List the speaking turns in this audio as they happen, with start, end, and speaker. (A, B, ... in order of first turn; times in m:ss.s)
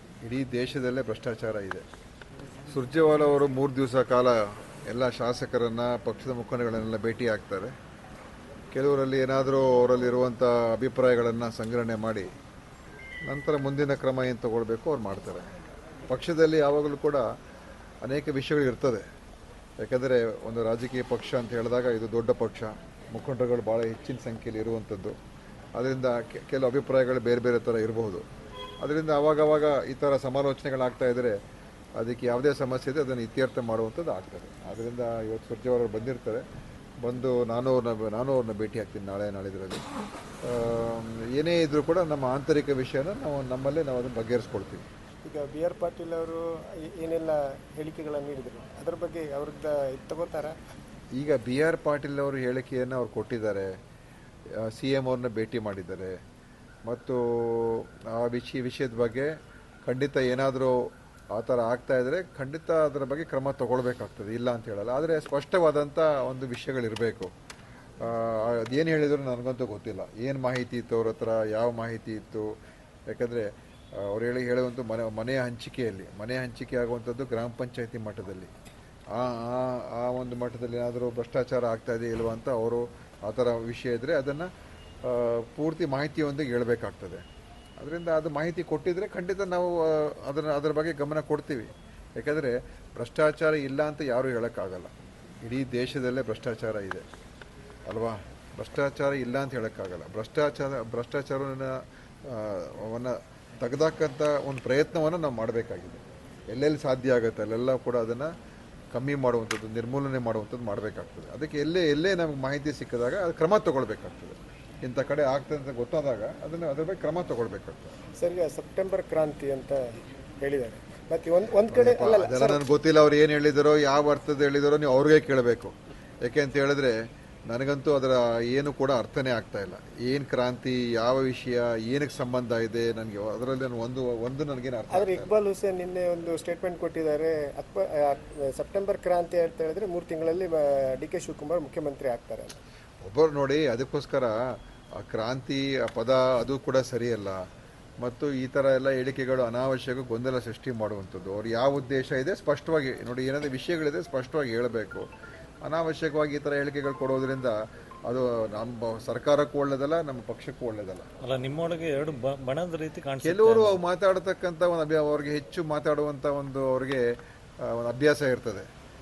0:00.2-0:01.8 A
0:02.7-0:07.7 A
0:08.7-0:12.3 A
0:13.3-0:15.5 A
0:16.1-0:17.3 A
0:18.0-0:19.0 A
0:19.8-0:25.2 A
0:25.8-0:28.3 A
0:28.8-0:31.4 A
0:32.0-0:36.4 A
0:37.0-0:39.8 A
0:40.4-0:44.9 A
0:45.2-0:50.6 B
0:51.2-0:53.7 A
0:54.6-0:56.2 A
0:56.9-0:59.3 A
0:59.8-1:07.3 A
1:08.0-1:12.5 A
1:13.1-1:18.5 A
1:19.1-1:24.5 A
1:25.0-1:27.2 A
1:27.8-1:34.9 A
1:35.4-1:37.0 A
1:37.9-1:48.3 A
1:48.9-1:58.0 A
1:58.2-2:02.7 B
2:01.7-2:07.0 A
2:07.5-2:15.3 A
2:14.9-2:22.6 B
2:23.0-2:24.4 A
2:25.0-2:27.4 A
2:28.0-2:35.1 A
2:35.6-2:41.1 A
2:41.2-2:43.8 C
2:43.2-2:47.1 A
2:47.6-2:48.7 A